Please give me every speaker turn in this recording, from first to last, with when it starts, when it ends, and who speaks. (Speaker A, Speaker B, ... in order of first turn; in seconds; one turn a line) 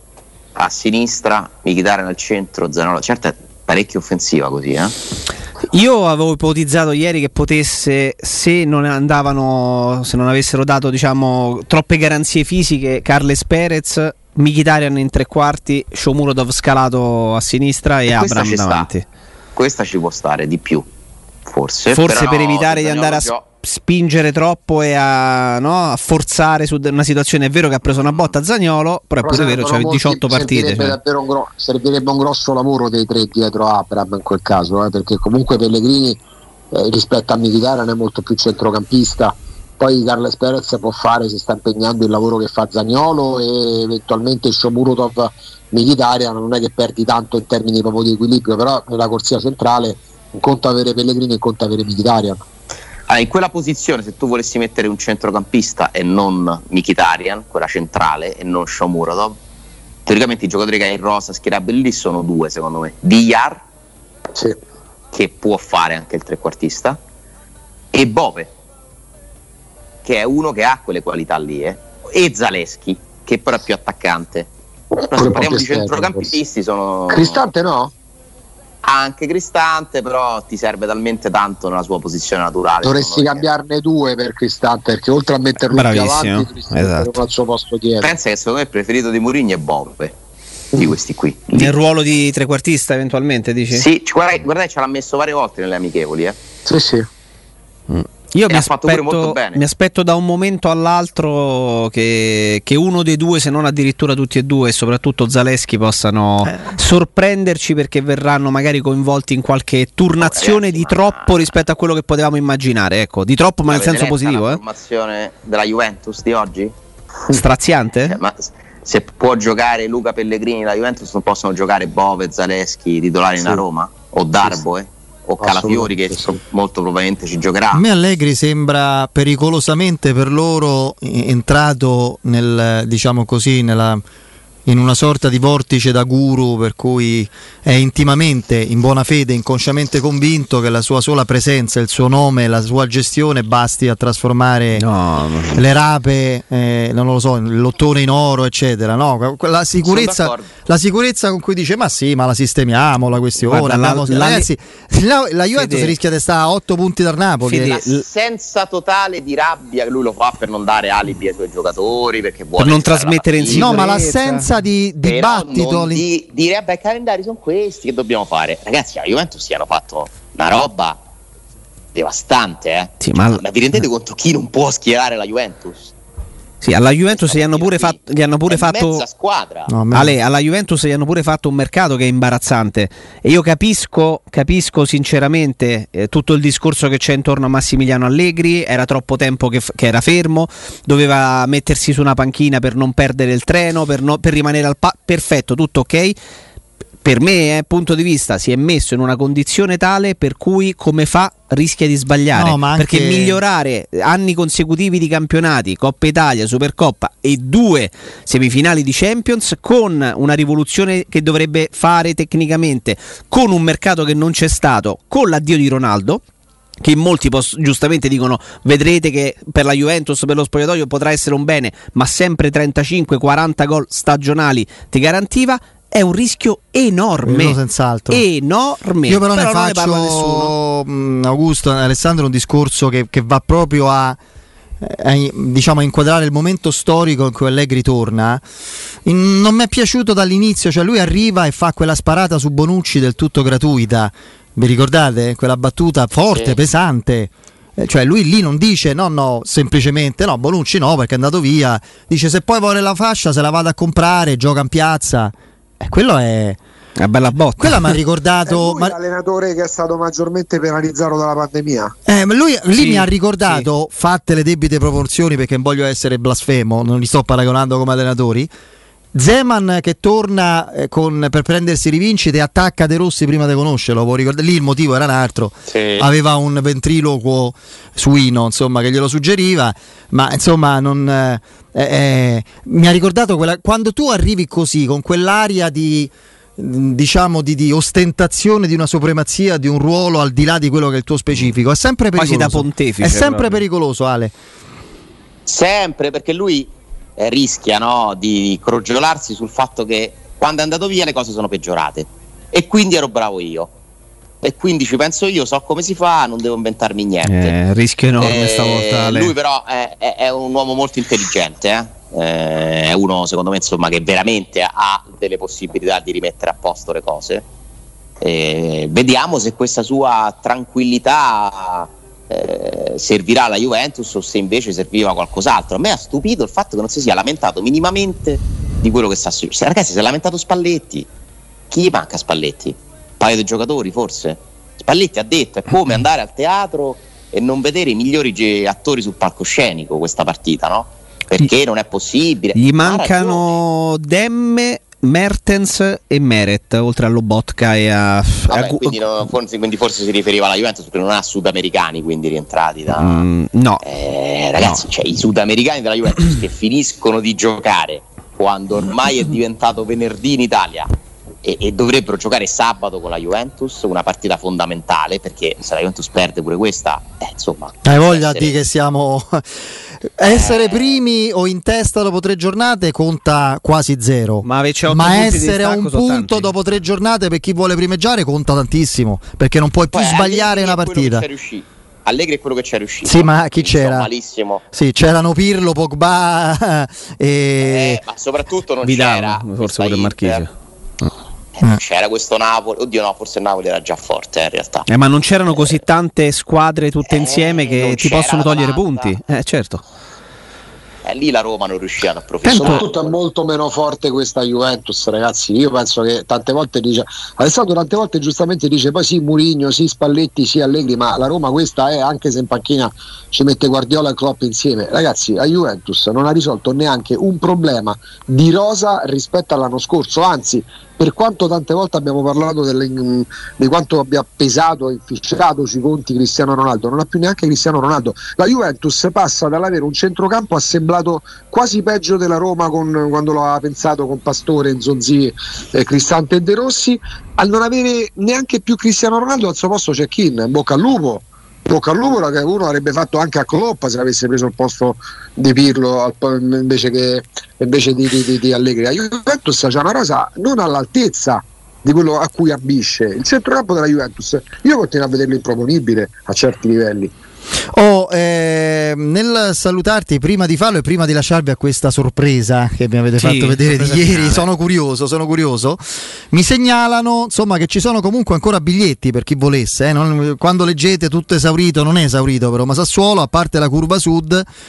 Speaker A: 0.6-5.0
Speaker B: 5.7-19.0
Speaker A: 18.1-18.9
Speaker A: 19.6-20.9
Speaker A: 21.4-23.4
Speaker B: 21.9-31.0
Speaker C: 29.2-36.2
Speaker C: 36.7-52.4
Speaker A: 53.1-59.4
Speaker A: 60.0-63.6
Speaker A: 65.1-67.0
Speaker A: 67.9-68.5
Speaker A: 70.0-77.4
Speaker C: 75.1-76.3
Speaker C: 77.1-77.9
Speaker A: 78.8-83.5
Speaker C: 82.8-88.1
Speaker B: 85.7-87.2
Speaker A: 88.0-90.1
Speaker A: 90.7-91.8
Speaker B: 91.5-93.8
Speaker A: 93.7-96.4
Speaker C: 96.7-97.1
Speaker B: 97.9-114.6
Speaker A: 98.5-99.6
Speaker A: 110.2-111.4
Speaker A: 113.7-116.7
Speaker B: 117.3-118.2
Speaker A: 118.0-127.8
Speaker C: 125.4-126.4
Speaker D: 127.7-134.0
Speaker D: 134.7-144.8
Speaker B: 144.8-145.6
Speaker D: 145.5-157.8
Speaker A: 149.8-150.5
Speaker B: 153.4-154.5
Speaker B: 155.5-155.9
Speaker B: 157.5-158.0
Speaker A: 157.5-163.9
Speaker B: 162.6-164.5
Speaker D: 163.5-166.0
Speaker A: 165.0-171.0
Speaker A: 171.9-175.9
Speaker B: 173.0-173.4
Speaker B: 176.6-179.0
Speaker A: 177.1-179.7
Speaker D: 179.7-180.2
Speaker B: 179.9-196.2
Speaker B: 197.0-216.2
Speaker D: 202.3-203.4
Speaker B: 216.8-227.6
Speaker D: 227.2-228.2
Speaker B: 228.1-230.5
Speaker D: 229.1-234.2
Speaker D: 234.8-238.4
Speaker D: 239.0-256.6
Speaker B: 257.0-258.0
Speaker D: 257.6-258.9
Speaker C: 258.4-261.9
Speaker D: 262.1-268.5
Speaker B: 262.8-263.7
Speaker D: 269.1-294.3
Speaker A: 275.7-276.1
Speaker B: 292.1-293.6
Speaker A: 295.4-303.7
Speaker A: 304.4-307.5
Speaker B: 307.3-309.3
Speaker A: 308.2-317.4
Speaker A: 318.2-331.1
Speaker A: 331.7-343.6
Speaker B: 342.5-349.0
Speaker A: 348.5-353.2
Speaker B: 352.9-353.8
Speaker A: 353.8-360.9
Speaker A: 361.4-368.5
Speaker D: 367.8-381.2
Speaker A: 370.2-371.0
Speaker B: 374.4-376.5
Speaker A: 379.9-384.6
Speaker D: 383.0-384.1
Speaker D: 384.7-388.0
Speaker A: 387.6-390.4
Speaker B: 388.8-390.5
Speaker A: 391.5-394.9
Speaker B: 394.9-399.8
Speaker A: 397.1-399.1
Speaker A: 401.0-402.9
Speaker B: 402.4-402.8
Speaker C: 402.5-457.1
Speaker D: 457.7-474.4
Speaker B: 463.2-464.4